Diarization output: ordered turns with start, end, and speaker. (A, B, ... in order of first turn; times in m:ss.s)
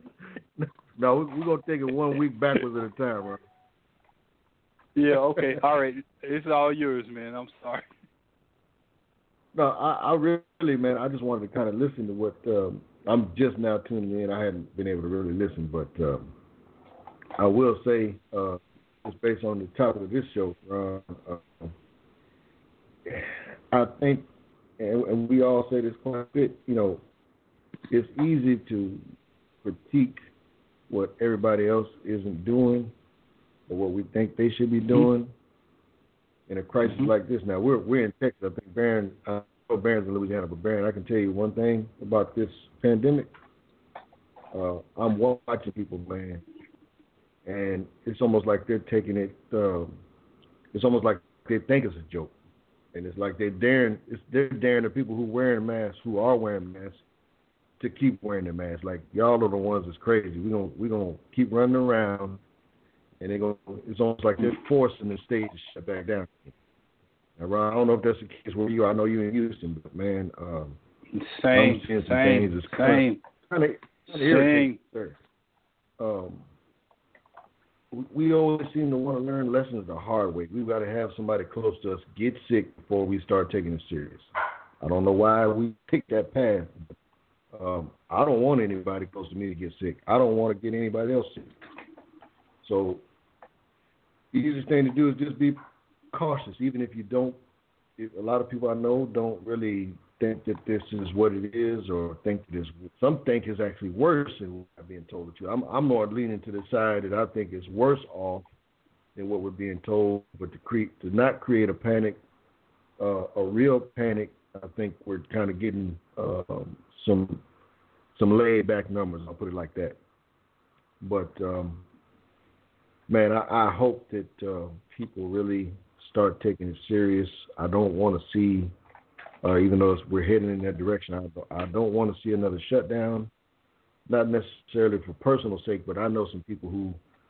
0:00.6-0:03.4 A
0:05.0-0:07.9 B
0:09.5-0:16.3 A
0:17.4-0:21.7 A
0:23.1-0:27.0 A
0:27.9-0:29.0 A
0:29.6-0:30.2 A
0:30.9-0:32.9 A
0:33.7-0:35.3 A
0:36.5-0:43.3 A
0:44.5-0:46.4 A
0:47.4-0:50.0 A
0:50.7-0:52.3 A
0:52.9-0:57.0 A
0:57.8-1:02.4 A
1:03.2-1:06.5 A
1:07.4-1:10.8 A
1:11.1-1:13.2 B
1:11.5-1:15.2 A
1:14.1-1:14.8 B
1:16.0-1:16.5 A
1:17.9-1:26.9 A
1:27.5-1:31.5 A
1:32.6-1:33.0 A
1:34.3-1:35.6 A
1:36.1-1:37.4 A
1:38.0-1:48.5 A
1:49.1-1:52.2 A
1:53.0-1:57.4 A
1:58.1-2:00.0 A
2:01.0-2:01.8 A
2:03.1-2:08.7 A
2:09.4-2:13.3 A
2:14.1-2:17.0 A